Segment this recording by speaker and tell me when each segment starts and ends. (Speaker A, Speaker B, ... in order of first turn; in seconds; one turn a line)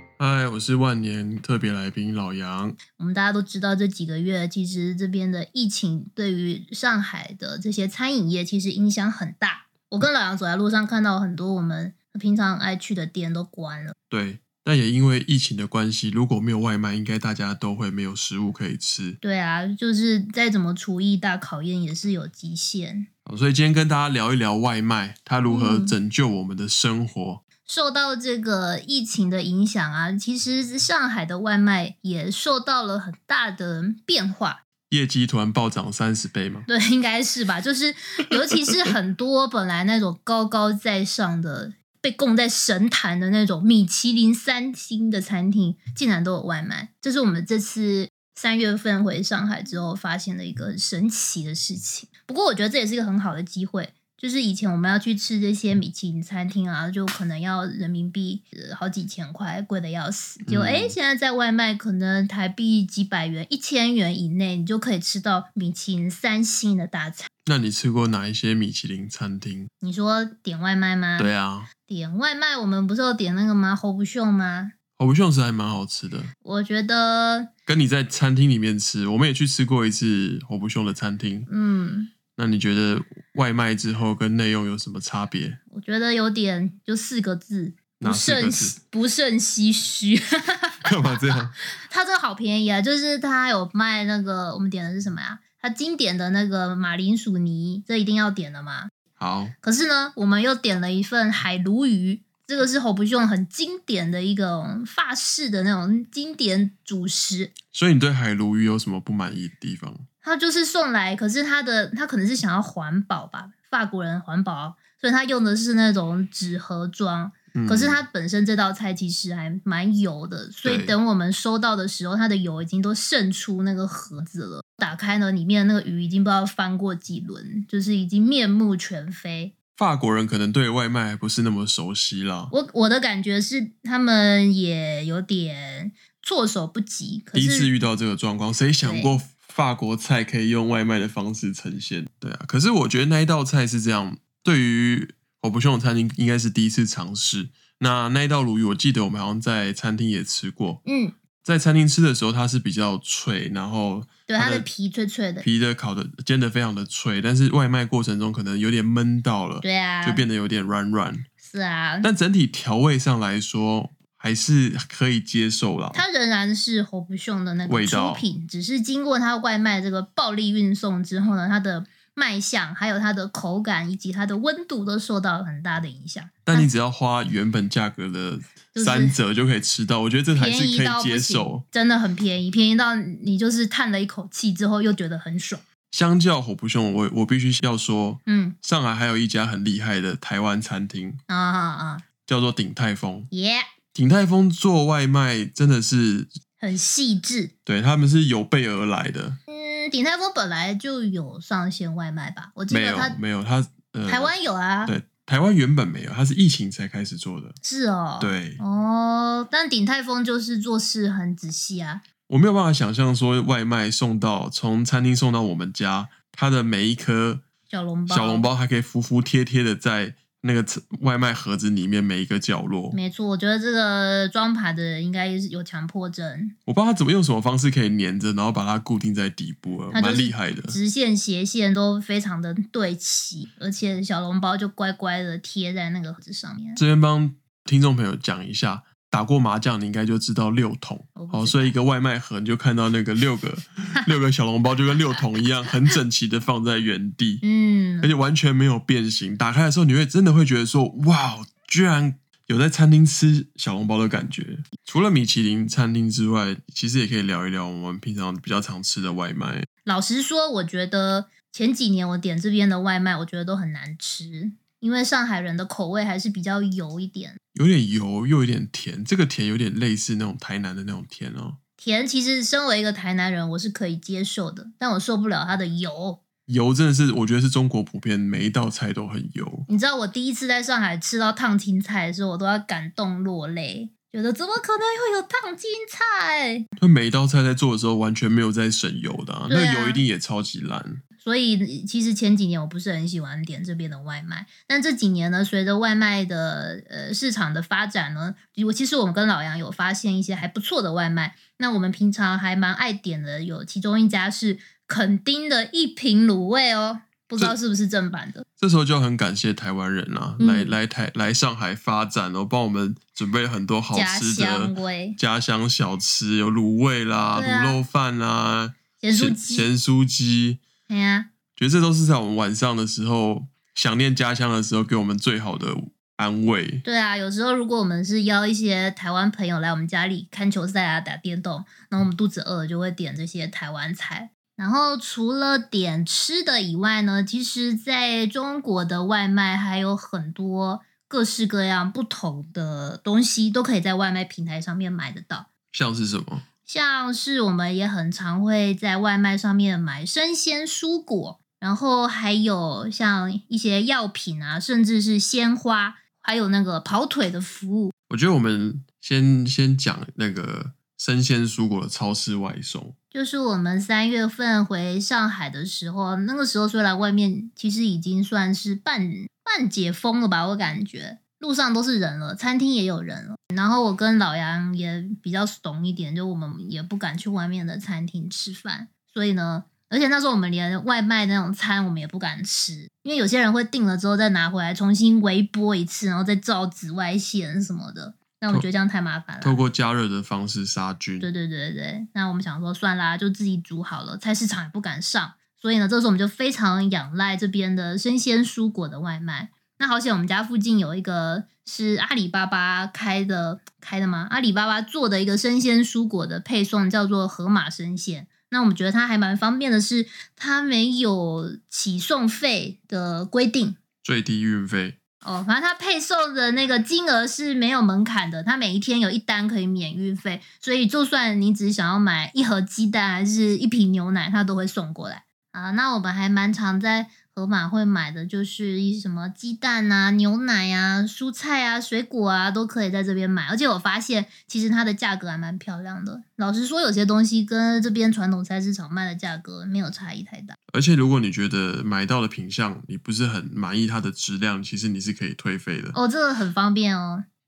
Speaker A: 0.2-2.8
Speaker B: 2.9-14.0
Speaker A: 14.1-19.2
Speaker B: 19.2-23.1
Speaker A: 23.3-27.4
Speaker B: 25.5-26.0
Speaker B: 27.7-34.6
Speaker A: 34.9-36.7
Speaker B: 36.7-67.3
Speaker A: 60.5-61.0
Speaker A: 67.5-69.7
Speaker B: 69.8-71.3
Speaker A: 71.2-71.7
Speaker B: 71.9-74.7
Speaker A: 75.0-76.3
Speaker B: 76.4-77.5
Speaker A: 77.7-81.5
Speaker B: 81.5-82.1
Speaker A: 82.4-85.6
Speaker B: 85.7-98.9
Speaker A: 88.0-88.8
Speaker A: 90.8-91.5
Speaker A: 99.2-99.5
Speaker B: 99.6-107.5
Speaker A: 107.7-110.0
Speaker B: 110.2-129.5
Speaker A: 117.5-118.0
Speaker A: 120.7-121.0
Speaker A: 129.8-132.5
Speaker B: 132.5-137.7
Speaker A: 137.3-150.8
Speaker B: 138.8-139.2
Speaker B: 150.8-151.2
Speaker A: 151.4-154.7
Speaker B: 154.3-155.5
Speaker A: 155.4-161.3
Speaker B: 159.6-160.2
Speaker B: 161.4-162.1
Speaker A: 162.0-166.0
Speaker B: 165.9-176.7
Speaker A: 167.7-168.3
Speaker A: 176.5-181.6
Speaker B: 178.8-179.2
Speaker B: 180.3-185.6
Speaker A: 185.9-191.2
Speaker B: 188.3-188.6
Speaker B: 191.3-192.0
Speaker A: 192.3-193.3
Speaker B: 193.3-193.7
Speaker A: 193.9-196.3
Speaker B: 196.6-197.5
Speaker A: 197.7-199.4
Speaker B: 199.5-203.2
Speaker A: 202.7-204.3
Speaker B: 204.1-204.9
Speaker A: 204.9-207.6
Speaker B: 207.6-212.0
Speaker A: 208.2-208.6
Speaker A: 212.3-217.4
Speaker B: 217.7-218.5
Speaker A: 218.1-223.0
Speaker B: 222.9-226.6
Speaker A: 226.7-230.8
Speaker B: 229.9-236.8
Speaker A: 236.8-247.4
Speaker B: 241.2-241.8
Speaker B: 247.4-248.1
Speaker A: 248.0-259.7
Speaker B: 259.9-267.4
Speaker A: 267.6-271.6
Speaker B: 271.8-276.2
Speaker A: 276.5-279.7
Speaker B: 279.7-286.6
Speaker A: 286.8-291.0
Speaker B: 289.5-290.0
Speaker B: 291.2-308.5
Speaker A: 308.6-320.6
Speaker B: 310.4-310.8
Speaker B: 313.9-315.2
Speaker B: 317.3-317.9
Speaker B: 319.0-319.7
Speaker B: 320.9-321.3
Speaker A: 321.6-326.9
Speaker B: 326.8-345.5
Speaker A: 345.7-346.4
Speaker B: 346.7-357.9
Speaker A: 358.1-362.9
Speaker B: 363.1-389.6
Speaker A: 389.4-391.3
Speaker B: 391.2-413.8
Speaker A: 414.0-415.0
Speaker B: 415.2-440.6
Speaker A: 440.7-446.0
Speaker B: 445.9-447.2